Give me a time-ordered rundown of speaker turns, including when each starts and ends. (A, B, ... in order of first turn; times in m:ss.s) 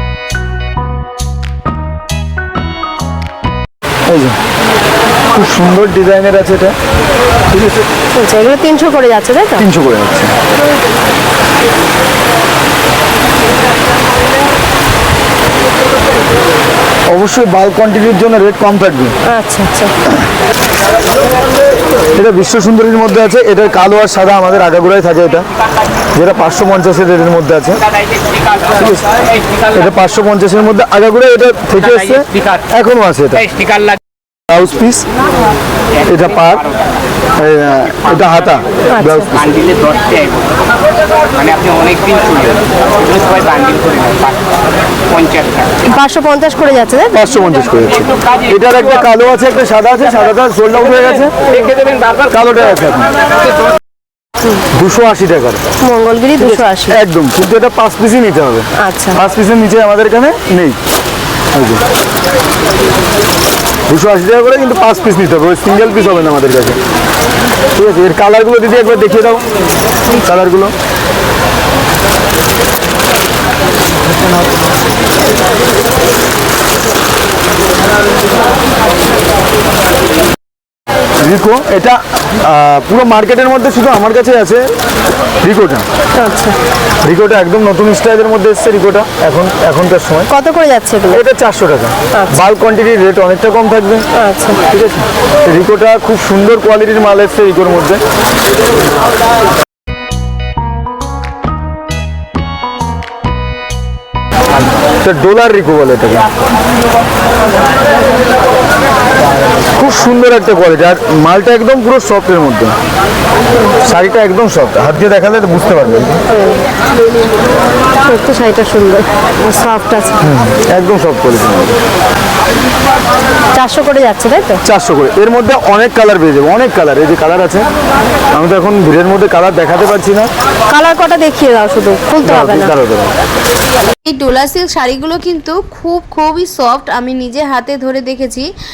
0:04.1-0:04.4 A
0:05.3-0:06.7 A
0:07.5-0:07.8 A
0:08.1-0:09.6 B
0:09.6-0:10.3 A
0:17.1-0:19.1 A
0:19.3-0:19.9 B
0:22.2-0:25.4 A
0:26.1-0:27.8 A
0:28.7-0:29.1 A
0:29.7-0:33.5 A
0:34.5-0:35.0 A
0:36.0-0:36.6 A
0:37.4-0:39.6 A
0:38.9-0:39.3 B
0:45.9-0:47.2 B
0:47.1-0:51.4 A
0:52.2-0:53.1 A
0:54.7-0:55.6 A
0:55.8-0:57.0 B
0:56.4-1:00.8 A
0:58.8-0:59.2 B
1:01.5-1:01.8 A
1:03.9-1:06.8 A
1:07.8-1:09.4 A
1:10.1-1:10.7 A
1:21.2-1:24.7 A
1:25.4-1:25.8 A
1:26.2-1:26.6 B
1:27.0-1:30.3 A
1:30.3-1:31.2 B
1:31.1-1:34.0 A
1:32.1-1:32.4 B
1:34.2-1:34.6 B
1:34.7-1:38.0 A
1:45.0-1:46.3 A
1:49.7-1:52.8 A
1:53.8-1:56.2 A
1:56.3-1:56.6 B
1:58.0-2:00.2 B
2:00.2-2:01.8 A
2:03.5-2:04.6 B
2:04.6-2:07.7 A
2:08.3-2:10.3 A
2:10.7-2:12.7 B
2:12.2-2:13.2 A
2:14.0-2:18.5 C